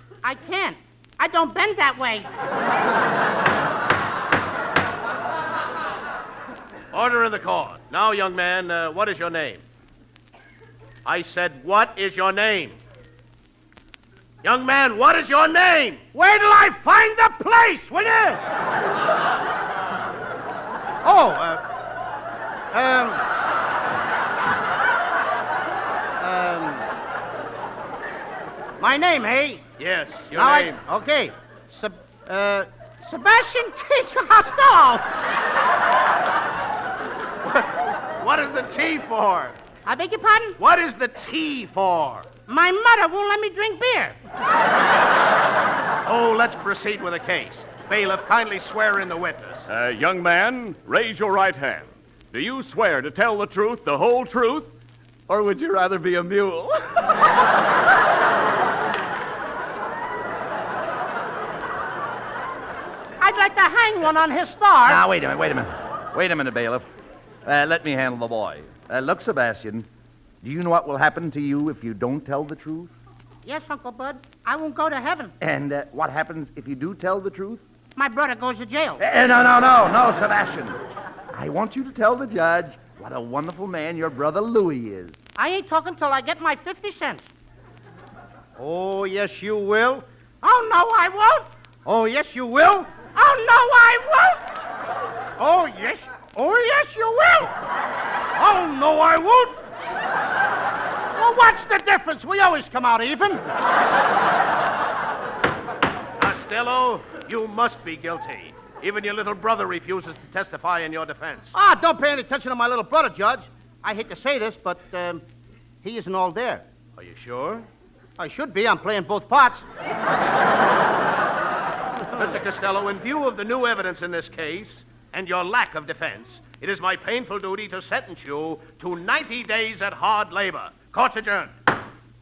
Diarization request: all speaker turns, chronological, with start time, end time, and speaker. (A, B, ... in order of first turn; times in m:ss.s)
0:00.2-0:02.3 A
0:06.9-0:09.6 B
0:11.0-0:12.8 B
0:14.4-0:16.0 B
0:16.1-0:18.4 A
0:21.0-0:21.6 A
0:22.7-0:23.2 A
0:26.2-0:26.8 A
0:28.8-0:29.6 A
0:29.8-0:30.8 B
0:30.3-0:35.0 A
0:37.4-0:39.6 B
0:39.8-0:40.6 A
0:40.6-0:42.3 B
0:42.5-0:44.2 A
0:46.0-0:49.6 B
0:49.7-0:54.7 C
0:55.3-0:57.2 C
1:03.2-1:05.0 A
1:04.8-1:06.9 D
1:07.4-1:09.9 D
1:10.4-1:12.9 D
1:13.4-1:15.3 A
1:15.4-1:17.6 D
1:18.0-1:19.0 A
1:19.0-1:20.8 D
1:21.3-1:25.2 D
1:25.4-1:27.3 A
1:28.6-1:34.4 A
1:35.4-1:37.5 A
1:38.3-1:39.6 A
1:41.1-1:43.4 A
1:46.2-1:51.5 B
1:51.5-1:55.2 A
1:55.8-1:56.6 A
1:57.0-1:57.7 B
1:58.2-1:59.6 A
2:02.1-2:11.5 B